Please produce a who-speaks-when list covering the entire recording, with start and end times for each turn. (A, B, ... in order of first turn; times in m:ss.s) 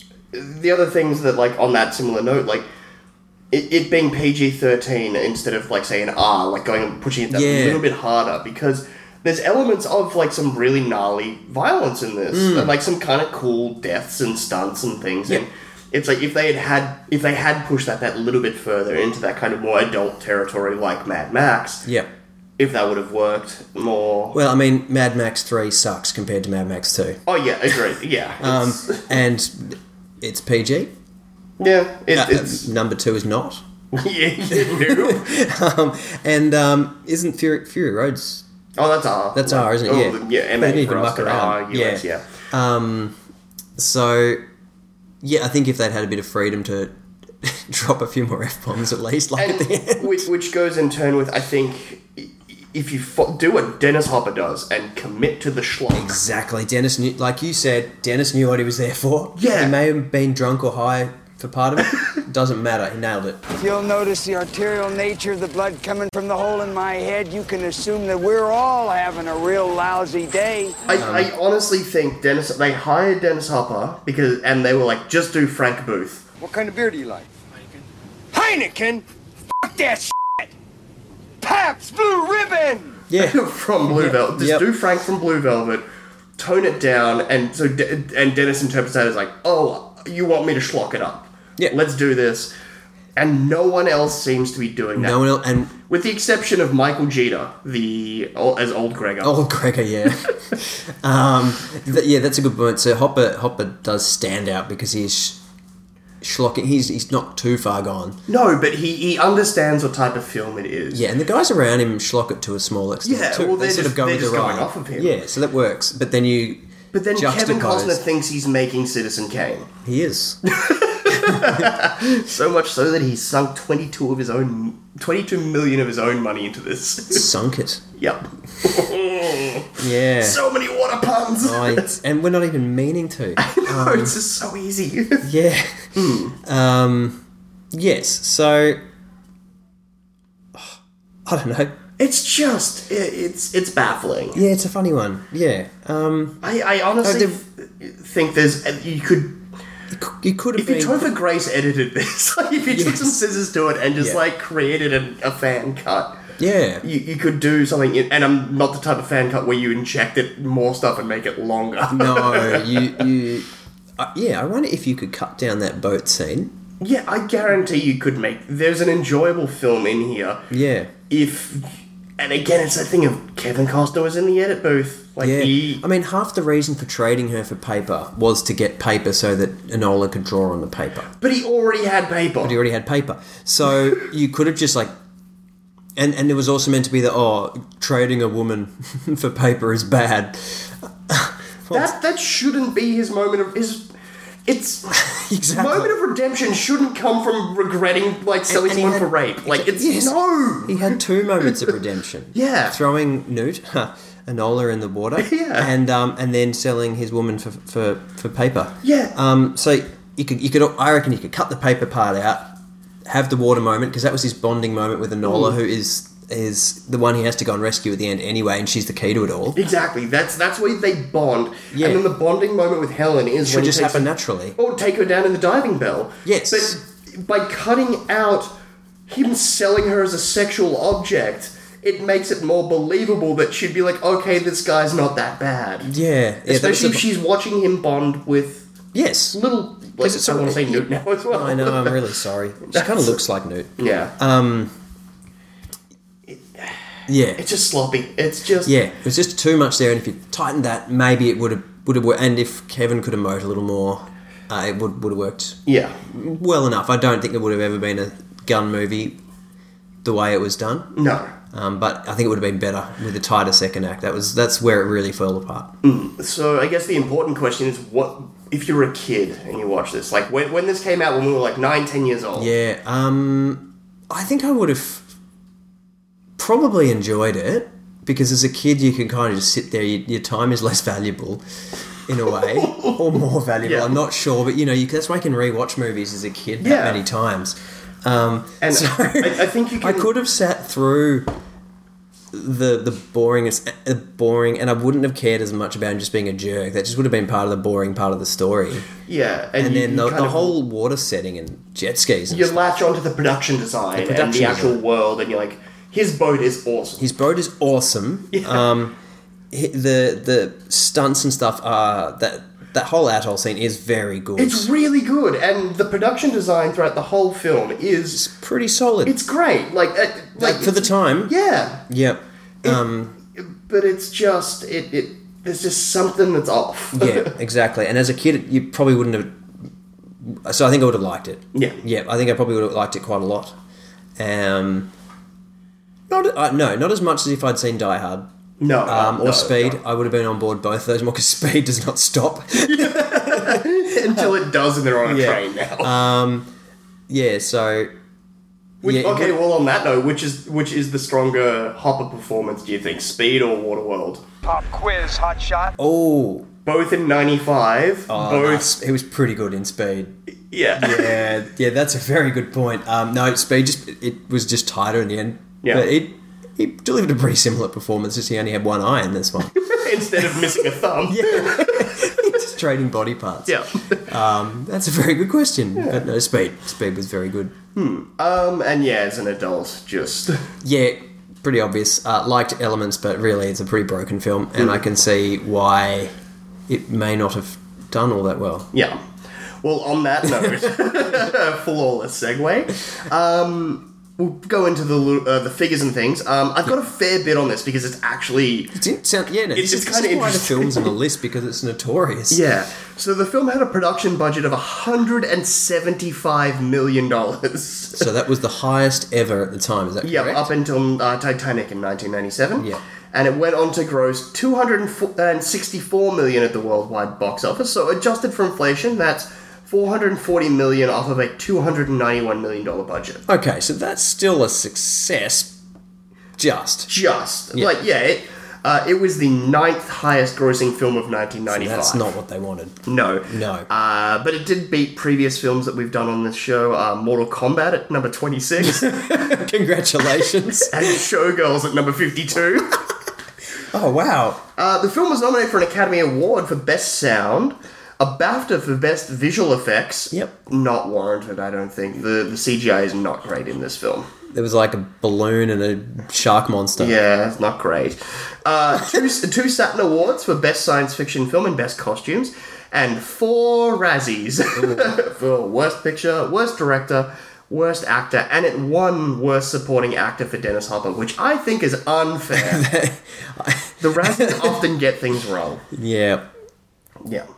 0:00.3-0:02.7 A
0:03.5-0:21.8 A
0:07.3-0:07.8 B
0:12.3-0:12.7 B
0:22.6-0:24.4 A
0:24.3-0:27.2 B
0:27.3-0:29.1 A
0:28.4-0:30.9 B
0:31.6-0:32.7 A
0:32.1-0:33.6 B
0:33.9-0:35.3 A
0:34.5-0:38.4 B
0:38.8-0:42.2 A
0:39.4-0:43.2 B
0:43.8-0:44.4 B
0:45.2-0:50.3 B
0:49.4-0:56.2 A
0:55.9-1:03.4 B
0:59.4-0:59.8 A
1:03.6-1:10.8 C
1:10.9-1:16.3 A
1:11.0-1:11.3 B
1:16.4-1:17.3 C
1:18.3-1:20.5 C
1:21.4-1:23.0 C
1:23.1-1:24.7 B
1:23.2-1:25.8 A
1:26.4-1:32.5 A
1:33.2-1:35.2 A
1:35.0-1:35.7 B
1:35.9-1:39.4 A
1:39.2-1:45.4 B
1:46.2-1:48.2 B
1:48.3-1:51.0 A
1:50.9-1:58.0 B
1:53.0-1:55.1 A
1:56.9-1:59.7 A
1:59.8-2:00.4 B
2:00.5-2:07.3 A
2:01.1-2:01.7 B
2:07.1-2:07.8 B
2:08.0-2:11.9 A
2:09.8-2:10.4 B
2:11.4-2:14.2 B
2:13.4-2:15.3 A
2:15.2-2:18.8 B
2:16.0-2:16.4 A
2:20.6-2:21.8 B
2:22.0-2:24.4 A
2:24.4-2:26.4 B
2:26.4-2:29.4 A
2:27.0-2:27.4 B
2:29.9-2:31.1 B
2:30.6-2:36.2 A
2:32.7-2:33.2 B
2:36.4-2:36.8 B
2:36.8-2:43.0 A
2:41.9-2:46.6 B
2:46.8-2:50.4 A
2:50.5-2:50.9 B
2:51.1-2:55.8 A
2:55.2-3:01.1 B
3:01.2-3:02.6 A
3:02.4-3:04.9 B
3:06.0-3:12.0 B
3:11.7-3:13.9 A
3:14.5-3:15.0 A
3:14.9-3:16.0 B
3:15.6-3:21.7 A
3:18.5-3:32.5 B
3:22.3-3:22.8 A
3:25.2-3:25.7 A
3:28.8-3:29.1 A
3:33.1-3:39.6 B
3:35.2-3:35.6 A
3:39.6-3:48.5 A
3:41.7-3:42.1 B
3:43.4-3:44.6 B
3:46.2-3:46.8 B
3:49.1-3:55.9 A
3:55.9-3:57.1 B
3:56.5-3:58.7 A
3:58.9-3:59.4 B
3:59.3-4:02.0 A
3:59.9-4:04.7 B
4:02.6-4:03.2 A
4:03.8-4:04.1 A
4:06.3-4:06.8 A
4:07.1-4:07.4 B
4:07.4-4:08.7 A
4:08.6-4:19.2 B
4:15.7-4:16.0 A
4:20.0-4:20.9 B
4:20.9-4:21.3 A
4:21.5-4:25.7 B
4:25.8-4:32.5 A
4:32.4-4:35.1 B
4:36.4-4:41.4 B
4:42.1-4:51.3 B
4:42.5-4:43.0 A
4:43.6-4:44.0 A
4:46.6-4:47.0 A
4:48.6-4:50.1 A
4:52.3-4:58.9 B
4:59.1-5:00.6 A
4:59.6-5:02.6 B
5:02.3-5:07.0 A
5:04.0-5:04.8 B
5:07.0-5:09.0 B
5:08.3-5:08.6 A
5:09.5-5:14.7 B
5:14.4-5:18.2 A
5:18.1-5:19.2 B
5:19.0-5:21.8 A
5:20.4-5:21.3 B
5:21.9-5:23.2 B
5:23.4-5:27.3 A
5:26.9-5:29.4 B
5:30.2-5:33.6 B
5:31.5-5:31.8 A
5:34.2-5:34.9 B
5:36.1-5:38.3 B
5:38.6-5:39.8 A
5:38.9-5:44.3 B
5:42.6-5:45.9 A
5:45.1-5:46.5 B
5:47.1-5:47.9 B
5:48.8-5:54.2 A
5:48.8-5:49.4 B
5:54.4-5:55.8 C
5:55.8-5:56.5 B
5:56.6-5:58.7 A
5:58.1-6:00.2 B
6:00.5-6:01.2 A
6:00.8-6:10.5 B
6:05.6-6:05.9 A
6:09.6-6:12.4 A
6:11.1-6:17.6 B
6:13.5-6:14.0 A
6:15.8-6:16.0 A
6:17.8-6:20.4 A
6:20.6-6:26.1 B
6:24.6-6:24.8 A
6:26.7-6:28.7 B
6:28.7-6:29.0 A
6:29.6-6:38.8 A
6:30.2-6:31.3 B
6:38.8-6:42.4 B
6:39.5-6:40.9 A
6:42.3-6:48.1 A
6:48.0-6:50.5 B
6:50.0-7:03.2 A
7:03.3-7:05.6 B
7:06.4-7:06.9 B
7:06.9-7:12.1 A
7:11.5-7:13.7 B
7:12.9-7:19.4 A
7:18.6-7:20.9 B
7:20.7-7:22.8 A
7:23.7-7:24.4 B
7:24.6-7:34.1 A
7:34.3-7:37.0 B
7:36.8-7:52.6 A
7:44.6-7:45.0 B
7:52.3-7:54.6 B
7:53.8-7:55.6 A
7:55.7-7:56.3 B